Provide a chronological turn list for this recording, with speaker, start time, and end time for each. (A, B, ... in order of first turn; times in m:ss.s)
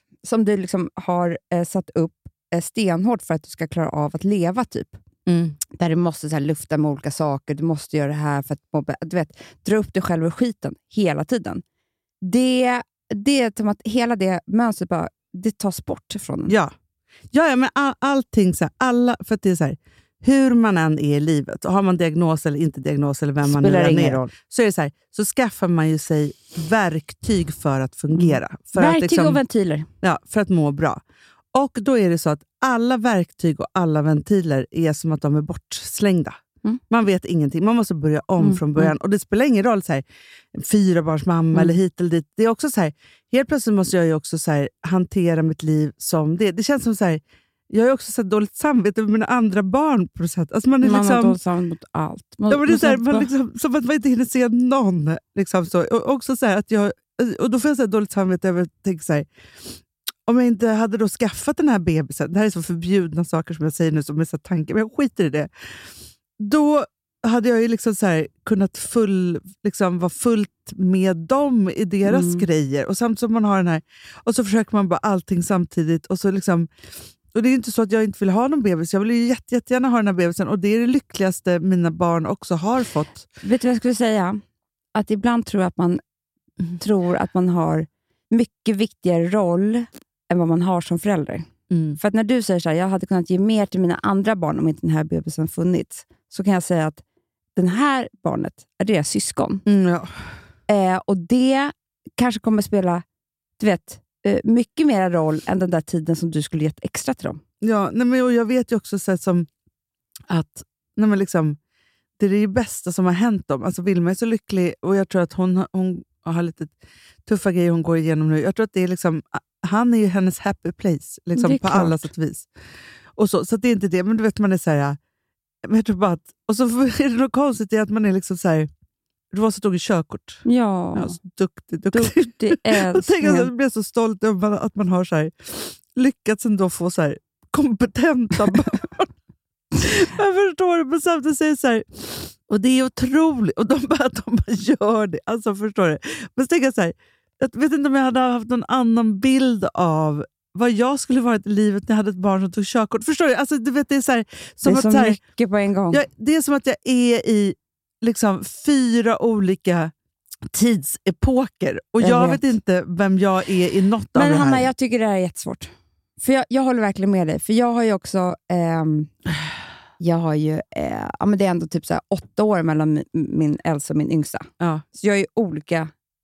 0:00.2-0:05.0 A
0:05.2-0:05.6 B
0:05.7-0:11.6 A
0:12.2-0:16.5 A
0:16.5-0:16.7 B
0:17.3-0:29.4 B
0:23.4-0:24.3 A
0:28.1-0:29.9 A
0:30.0-0:31.0 B
0:31.5-0:36.4 B
0:36.9-0:51.4 B
0:38.4-0:38.9 A
0:50.8-0:53.3 A
0:52.5-0:59.3 B
1:00.3-1:05.5 B
1:06.4-1:16.7 B
1:12.0-1:12.4 A
1:17.3-1:23.2 B
1:23.4-1:24.4 A
1:24.9-1:26.0 A
1:26.8-1:37.0 A
1:31.7-1:32.0 B
1:37.5-1:39.6 A
1:39.6-1:40.1 B
1:40.7-1:43.0 A
1:43.6-1:47.4 A
1:47.6-1:49.5 B
1:50.3-1:51.6 B
1:52.2-2:02.5 B
2:01.4-2:02.1 A
2:03.2-2:05.0 B
2:05.6-2:08.7 B
2:09.3-2:19.1 B
2:10.4-2:11.2 A
2:11.9-2:13.5 A
2:19.8-2:35.2 B
2:34.6-2:36.0 A
2:35.9-2:39.9 B
2:40.5-2:44.7 B
2:42.0-2:42.4 A
2:44.1-2:49.1 A
2:50.0-2:55.9 A